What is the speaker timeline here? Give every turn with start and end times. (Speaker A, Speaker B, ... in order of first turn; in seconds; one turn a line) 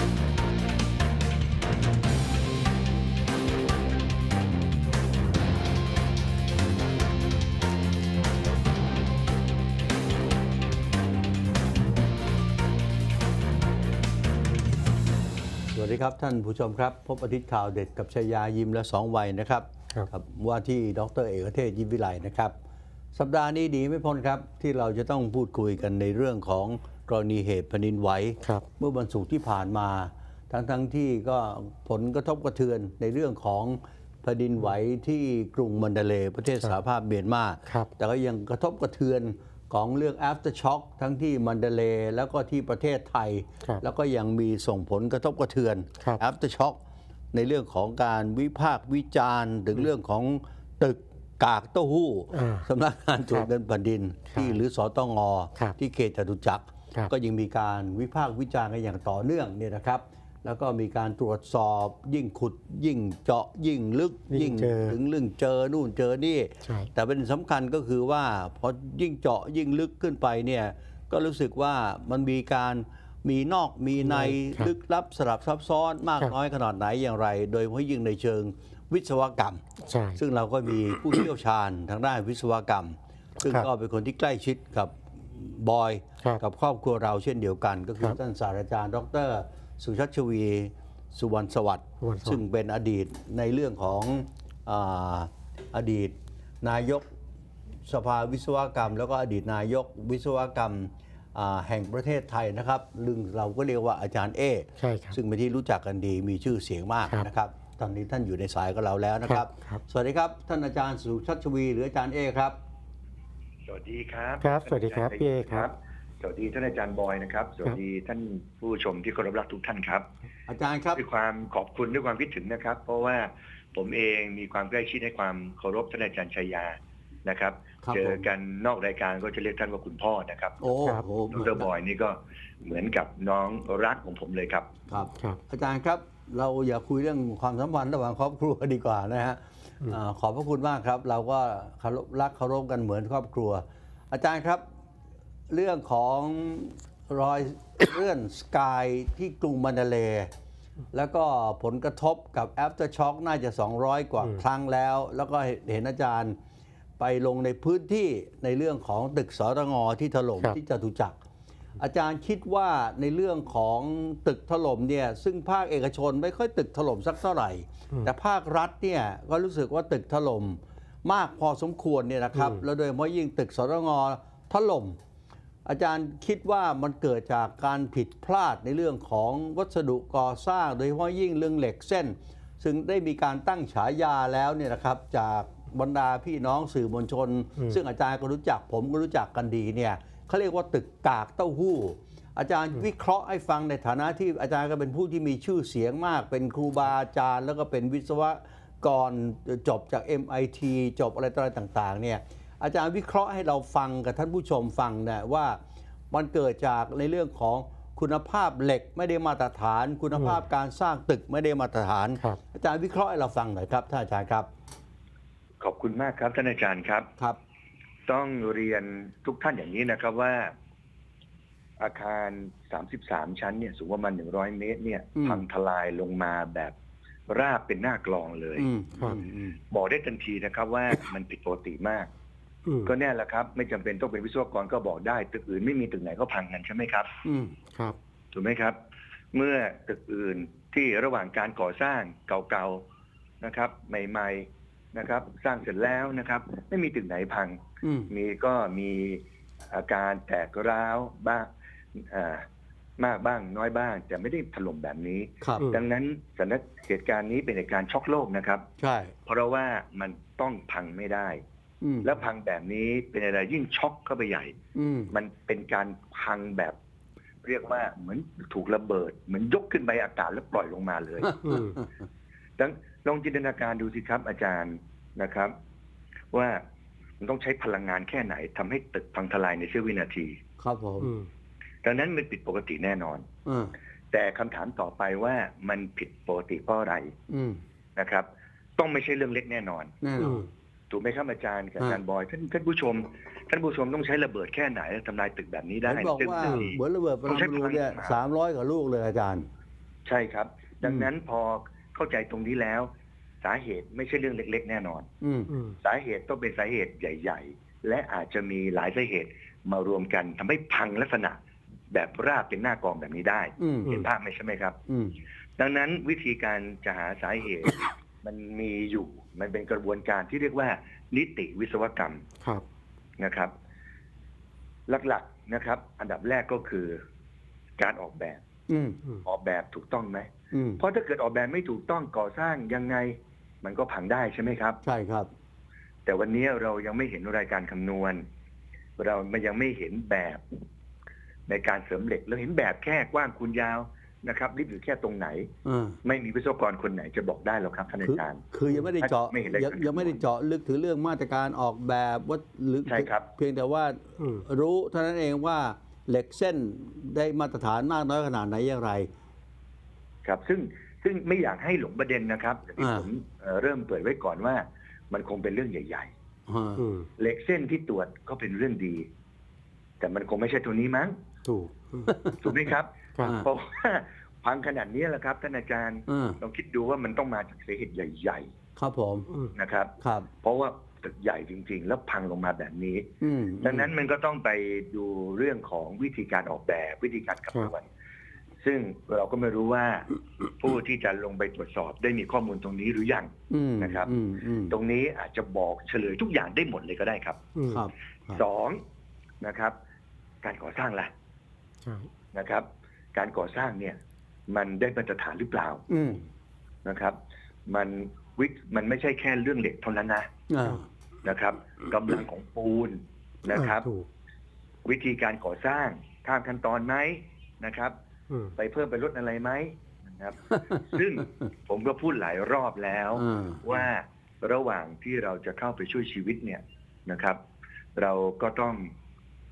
Speaker A: 15.7-22.5
Speaker A: 23.1-46.8
Speaker B: 37.7-37.9
Speaker A: 47.3-79.6
Speaker B: 52.3-52.7
Speaker B: 54.3-54.6
Speaker B: 64.3-65.0
Speaker B: 66.6-66.9
Speaker B: 74.0-74.7
Speaker B: 79.8-80.2
Speaker A: 80.2-97.1
Speaker B: 92.0-92.4
Speaker A: 97.9-112.6
Speaker B: 104.8-105.2
Speaker B: 109.2-109.8
Speaker C: 113.7-120.1
Speaker B: 114.4-115.7
Speaker A: 120.5-121.0
Speaker C: 121.0-130.7
Speaker A: 127.8-128.3
Speaker A: 130.6-131.7
Speaker C: 131.3-134.7
Speaker A: 134.9-144.6
Speaker A: 145.5-150.3
Speaker A: 150.9-156.4
Speaker A: 157.0-161.2
Speaker A: 161.8-175.0
Speaker B: 172.3-172.6
Speaker A: 175.7-205.6
Speaker A: 206.1-214.5
Speaker B: 210.1-210.4
Speaker C: 215.6-217.1
Speaker C: 218.1-220.5
Speaker C: 221.8-226.7
Speaker A: 225.2-225.4
Speaker C: 227.3-228.7
Speaker A: 228.6-229.6
Speaker C: 229.7-232.1
Speaker B: 232.7-232.9
Speaker C: 232.8-237.2
Speaker A: 237.2-237.6
Speaker C: 238.3-238.8
Speaker C: 239.3-242.8
Speaker C: 243.4-252.4
Speaker A: 247.8-248.1
Speaker C: 253.0-258.6
Speaker A: 255.4-255.7
Speaker A: 258.8-259.1
Speaker C: 259.3-261.4
Speaker A: 261.8-262.1
Speaker C: 262.0-264.6
Speaker A: 264.8-265.1
Speaker C: 265.1-266.8
Speaker C: 267.4-271.5
Speaker A: 271.4-271.9
Speaker B: 271.4-271.8
Speaker C: 272.6-275.5
Speaker C: 276.3-276.6
Speaker C: 277.2-280.4
Speaker A: 280.6-281.1
Speaker B: 281.0-281.3
Speaker C: 281.8-283.2
Speaker A: 283.5-283.7
Speaker C: 284.1-287.1
Speaker A: 287.3-287.6
Speaker C: 288.0-290.0
Speaker A: 290.0-290.5
Speaker B: 290.2-290.4
Speaker C: 290.9-298.2
Speaker A: 295.8-299.5
Speaker B: 296.4-296.7
Speaker C: 300.1-302.9
Speaker A: 300.8-301.1
Speaker C: 303.4-305.1
Speaker A: 305.2-305.5
Speaker B: 305.5-305.8
Speaker C: 305.8-311.4
Speaker C: 311.9-314.8
Speaker A: 313.6-314.0
Speaker A: 314.9-315.2
Speaker C: 315.6-322.2
Speaker C: 323.2-323.5
Speaker C: 324.9-327.0
Speaker C: 327.8-328.4
Speaker A: 328.7-329.0
Speaker C: 329.2-330.3
Speaker A: 330.5-330.8
Speaker C: 330.8-334.8
Speaker A: 334.8-335.3
Speaker C: 336.1-338.2
Speaker C: 339.0-340.4
Speaker C: 341.5-345.5
Speaker A: 345.6-346.0
Speaker C: 346.0-350.2
Speaker A: 348.0-359.1
Speaker C: 352.9-353.3
Speaker B: 354.2-354.5
Speaker C: 360.2-366.1
Speaker A: 362.8-363.1
Speaker A: 366.5-366.8
Speaker B: 366.8-367.1
Speaker C: 367.2-369.1
Speaker C: 370.0-371.2
Speaker B: 371.4-372.2
Speaker A: 372.1-372.7
Speaker C: 372.4-378.5
Speaker A: 376.1-376.4
Speaker A: 378.8-379.3
Speaker C: 379.6-383.1
Speaker A: 380.0-380.3
Speaker A: 383.2-383.9
Speaker C: 383.6-387.9
Speaker C: 388.6-390.1
Speaker C: 390.6-394.1
Speaker A: 393.5-394.8
Speaker C: 394.7-397.4
Speaker B: 397.6-397.9
Speaker A: 397.7-398.4
Speaker C: 398.3-398.8
Speaker C: 399.4-399.8
Speaker C: 400.4-401.1
Speaker B: 401.8-402.1
Speaker C: 402.3-405.9
Speaker A: 405.9-406.2
Speaker C: 406.9-410.3
Speaker A: 410.5-410.9
Speaker C: 411.2-413.9
Speaker B: 413.5-414.1
Speaker C: 414.9-417.9
Speaker B: 418.3-418.6
Speaker C: 418.6-427.4
Speaker A: 420.5-420.8
Speaker A: 423.1-423.6
Speaker C: 428.0-428.9